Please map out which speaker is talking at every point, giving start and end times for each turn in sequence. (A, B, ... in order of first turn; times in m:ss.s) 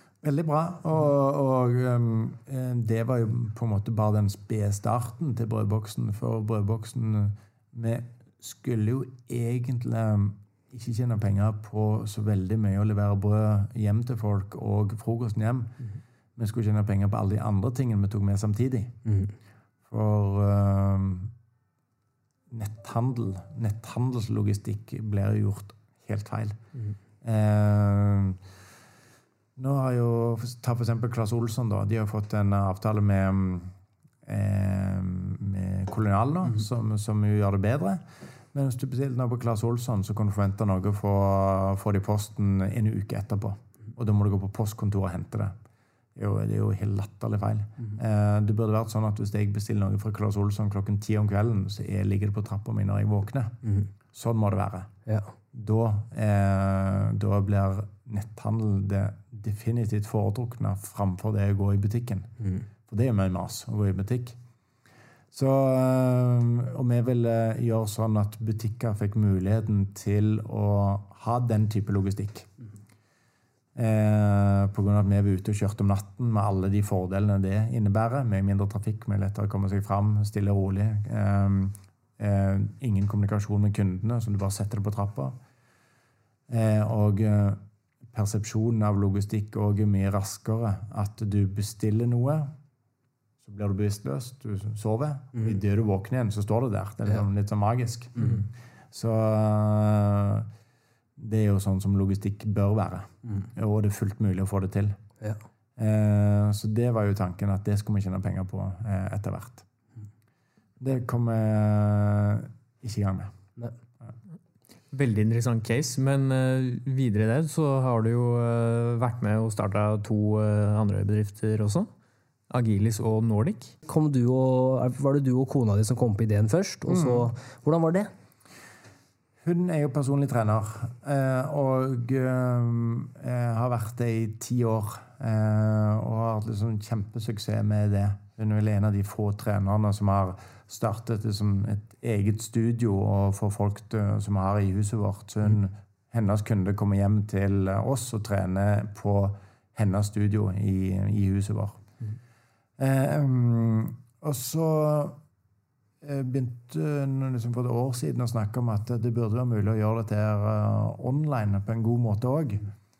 0:00.2-0:15.7 A
0:16.4-0:19.0 A
0:19.0-0:19.3 B
0:19.9-0:21.3 A
0:22.5-0:26.6 A
0:27.2-0:28.4 A
0:29.6-0:33.7 A
0:34.2-0:45.5 A
0:46.2-0:53.6 A
0:54.1-0:54.9 A
0:55.5-1:02.3 A
1:02.9-1:04.4 A
1:05.3-1:12.5 A
1:13.8-1:25.4 A
1:26.5-1:27.6 A
1:28.1-1:32.5 A
1:33.4-1:38.4 A
1:38.2-1:38.4 B
1:38.9-1:40.5 A
1:41.2-1:45.0 A
1:45.8-1:49.6 A
1:50.8-1:53.3 A
1:54.9-2:01.9 C
2:02.5-2:03.7 C
2:03.8-2:08.1 B
2:06.9-2:07.3 A
2:09.4-2:31.8 A
2:32.8-2:35.2 A
2:36.0-2:42.7 A